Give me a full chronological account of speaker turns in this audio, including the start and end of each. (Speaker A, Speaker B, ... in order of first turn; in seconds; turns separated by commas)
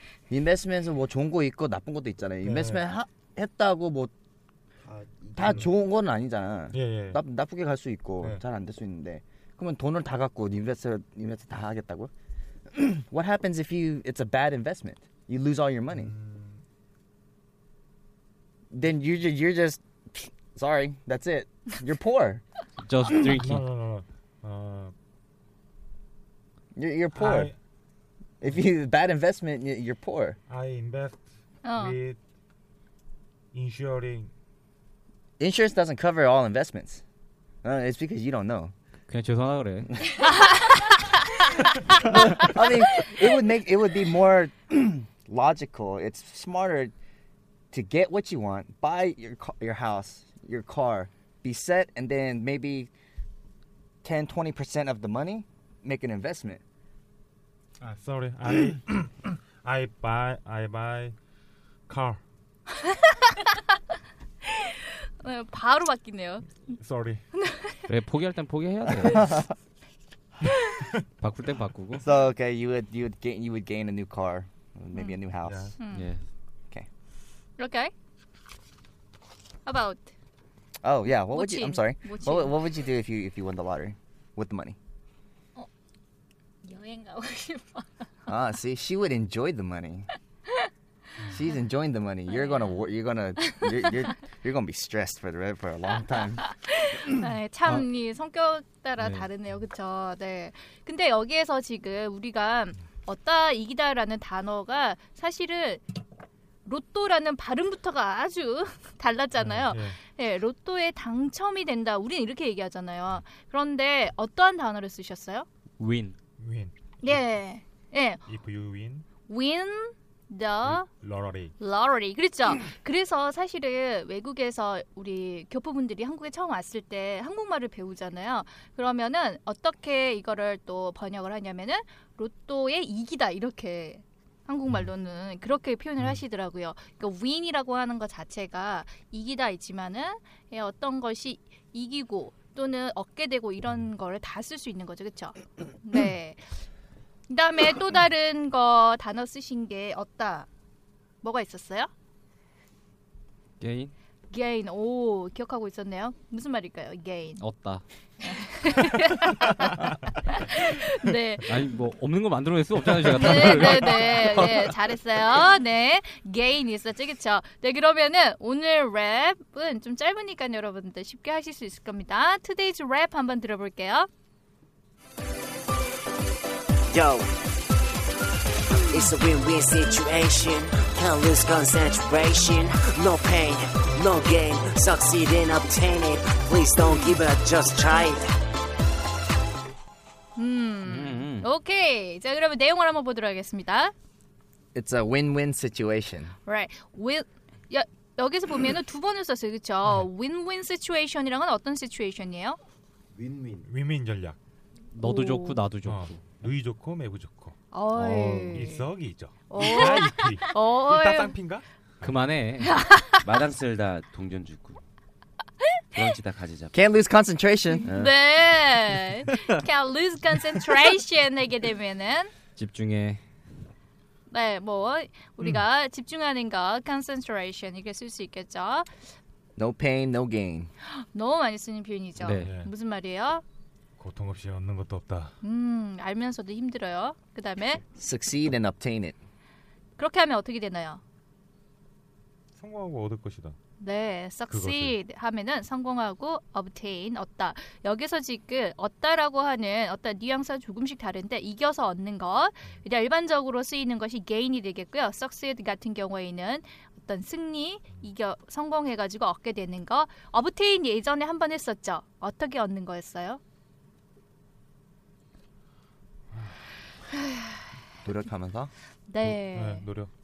Speaker A: 0.3-4.1, Speaker B: 2.4-2.8, Speaker B: 4.8-5.7, Speaker A: 5.3-12.1, Speaker B: 6.7-7.2, Speaker A: 12.7-16.1, Speaker B: 15.9-16.6, Speaker A: 18.7-22.4, Speaker C: 22.8-23.7, Speaker B: 23.3-24.9, Speaker A: 26.8-27.5, Speaker B: 27.1-27.6, Speaker A: 28.4-30.4, Speaker B: 30.5-32.2, Speaker D: 31.6-32.0, Speaker B: 33.5-34.3, Speaker A: 35.4-37.0, Speaker A: 37.6-38.7, Speaker C: 39.1-39.9, Speaker A: 42.0-46.9, Speaker A: 47.7-52.9, Speaker A: 54.0-56.6, Speaker B: 57.8-61.2, Speaker B: 61.9-62.2, Speaker D: 62.9-63.6, Speaker D: 64.4-66.5, Speaker B: 66.7-67.2, Speaker D: 67.4-67.8, Speaker C: 67.9-69.3, Speaker A: 69.0-69.5, Speaker C: 71.2-72.0, Speaker A: 72.0-75.8, Speaker B: 75.5-75.8, Speaker D: 75.8-76.1, Speaker C: 75.9-76.2, Speaker D: 77.6-77.9, Speaker D: 79.7-80.1, Speaker A: 80.8-84.8, Speaker D: 81.3-82.7, Speaker A: 88.3-90.1, Speaker A: 91.3-96.4, Speaker D: 92.3-92.8, Speaker D: 96.4-105.8, Speaker C: 99.0-99.3, Speaker D: 106.7-115.5, Speaker B: 109.3-110.0, Speaker C: 115.8-116.2, Speaker B: 116.4-117.2, Speaker D: 117.0-118.2, Speaker B: 118.3-119.1, Speaker D: 119.3-120.9, Speaker B: 120.7-121.5, Speaker D: 121.6-146.5, Speaker D: 147.3-150.5, Speaker D: 151.2-151.9, Speaker C: 153.6-153.9, Speaker D: 154.3-157.4, Speaker C: 157.4-157.8, Speaker D: 158.2-161.5, Speaker C: 161.5-164.6, Speaker D: 163.1-174.1, Speaker B: 163.3-163.8, Speaker E: 176.9-177.3, Speaker E: 178.9-188.3, Speaker D: 190.4-193.9, Speaker C: 190.8-191.5, Speaker A: 194.8-196.3, Speaker D: 196.5-202.6, Speaker F: 203.2-203.7, Speaker B: 203.7-204.4, Speaker C: 204.9-206.4, Speaker D: 205.0-205.6, Speaker B: 205.8-207.6, Speaker D: 207.7-208.9, Speaker C: 207.9-208.7, Speaker B: 208.5-212.2, Speaker D: 209.5-211.4, Speaker C: 212.0-212.8, Speaker D: 212.6-213.2, Speaker F: 213.2-214.8, Speaker F: 215.9-216.7, Speaker A: 216.7-218.1, Speaker D: 217.8-222.3, Speaker C: 222.6-223.2, Speaker D: 224.3-228.9, Speaker A: 229.6-230.7, Speaker D: 230.8-233.4, Speaker C: 232.2-232.5, Speaker B: 232.4-232.7, Speaker B: 234.0-235.3, Speaker D: 235.4-237.8, Speaker A: 237.9-239.2, Speaker D: 240.0-241.0, Speaker B: 242.6-243.6, Speaker D: 243.8-263.4, Speaker B: 244.5-245.0, Speaker B: 266.3-266.8, Speaker A: 268.0-268.7, Speaker D: 269.1-269.9, Speaker B: 269.2-270.1